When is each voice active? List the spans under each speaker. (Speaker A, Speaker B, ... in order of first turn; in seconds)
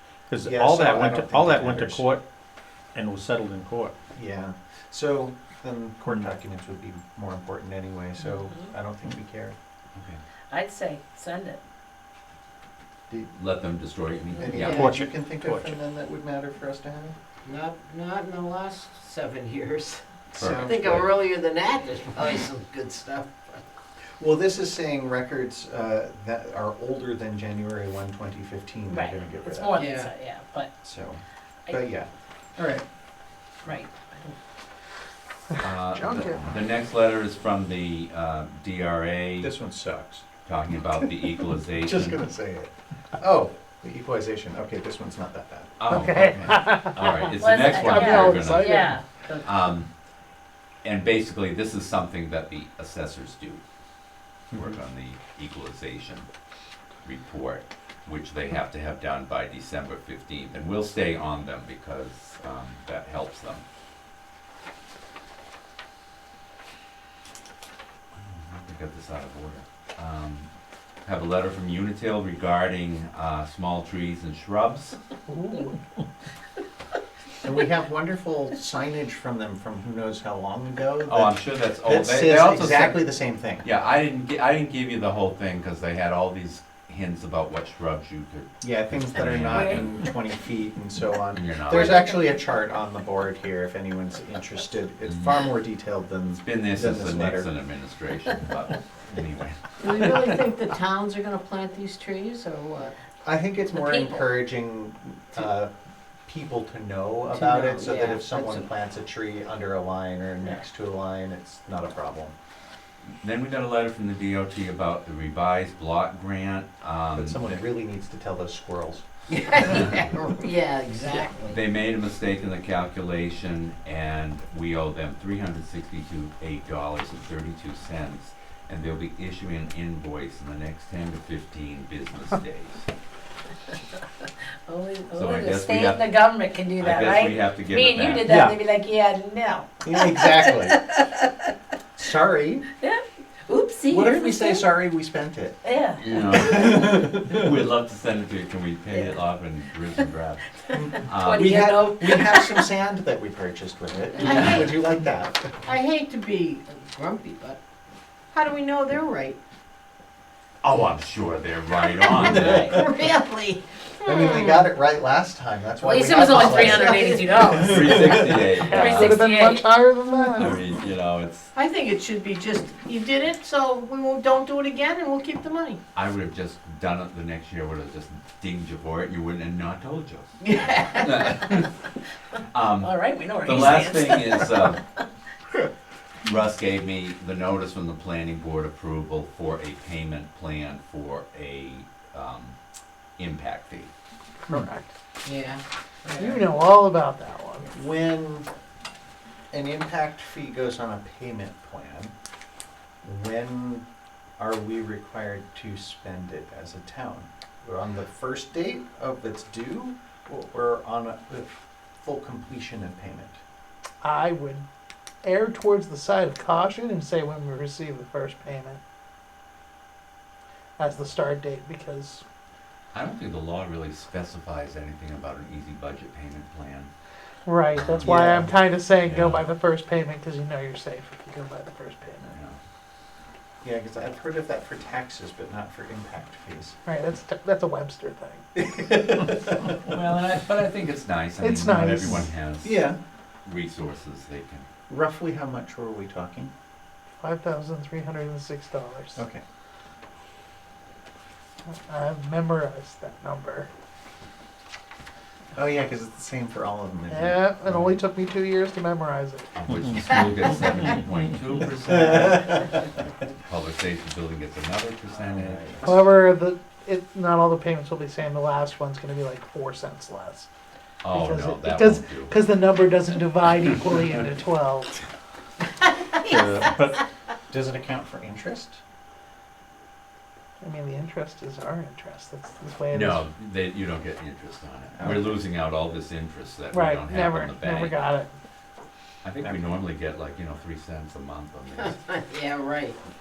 Speaker A: 0.3-2.2, 3.0-3.9, 14.6-15.7, 138.3-138.5, 276.3-277.0
Speaker B: 0.4-2.0, 4.1-9.6, 14.4-17.1, 20.3-21.1, 24.2-29.8, 30.8-32.8, 39.4-40.2, 41.8-46.6, 77.4-83.7, 88.6-97.5, 103.2-105.7, 106.3-112.3, 117.1-119.0, 139.8-140.9, 142.0-142.7, 143.9-145.6, 146.3-147.4, 150.7-155.5, 164.1-168.4, 197.7-198.5, 199.5-202.1, 203.0-203.8, 204.4-213.4, 228.0-228.5, 233.6-236.8, 238.6-239.7, 242.6-243.0, 244.9-246.5, 249.2-249.4, 255.6-257.9, 265.1-266.0, 277.5-278.8, 285.0-285.3, 289.4-289.8
Speaker C: 9.9-10.2, 13.3-14.8, 20.4-21.1, 35.6-39.5, 40.5-42.2, 45.8-49.9, 50.8-53.6, 54.5-56.3, 57.0-63.6, 68.2-70.5, 71.0-75.0, 81.1-83.1, 83.6-90.0, 91.3-92.0, 95.1-95.4, 96.3-100.3, 113.2-117.4, 121.5-132.9, 135.1-138.3, 146.0-151.5, 154.3-154.7, 160.6-162.8, 167.6-169.3, 170.4-171.5, 175.9-181.7, 182.5-184.8, 186.2-192.6, 193.2-193.9, 222.9-226.9, 227.8-228.3, 229.0-229.4, 232.3-232.6, 239.9-242.9, 243.4-244.7, 259.6-265.9, 271.0-272.5, 282.9-288.0, 289.2-292.1
Speaker D: 10.5-11.6, 28.9-30.7, 33.6-34.4, 47.4-49.7, 89.5-89.8, 103.7-104.3, 134.7-141.3, 142.8-144.7, 145.6-146.0, 148.9-149.2, 150.7-152.7, 164.2-164.6, 165.8-169.9, 180.9-181.1, 182.8-185.1
Speaker E: 14.6-14.9, 17.4-20.0, 20.6-23.6, 29.8-30.1, 99.8-102.9, 107.3-108.7, 119.3-121.6, 154.2-154.8, 155.6-157.6, 158.3-159.4, 162.0-164.2, 166.1-167.3, 171.5-175.8, 180.4-181.3, 195.2-196.4, 291.9-293.0
Speaker F: 35.9-36.4, 45.9-49.0, 75.3-75.8, 168.7-170.6, 194.5-194.9, 196.2-197.7, 214.0-214.7, 215.2-218.8, 220.8-222.2, 227.5-232.4, 236.9-238.4, 241.4-242.3, 247.2-249.2, 251.9-253.7, 257.1-259.5, 265.8-270.5, 271.1-275.0, 280.6-283.3, 286.7-288.3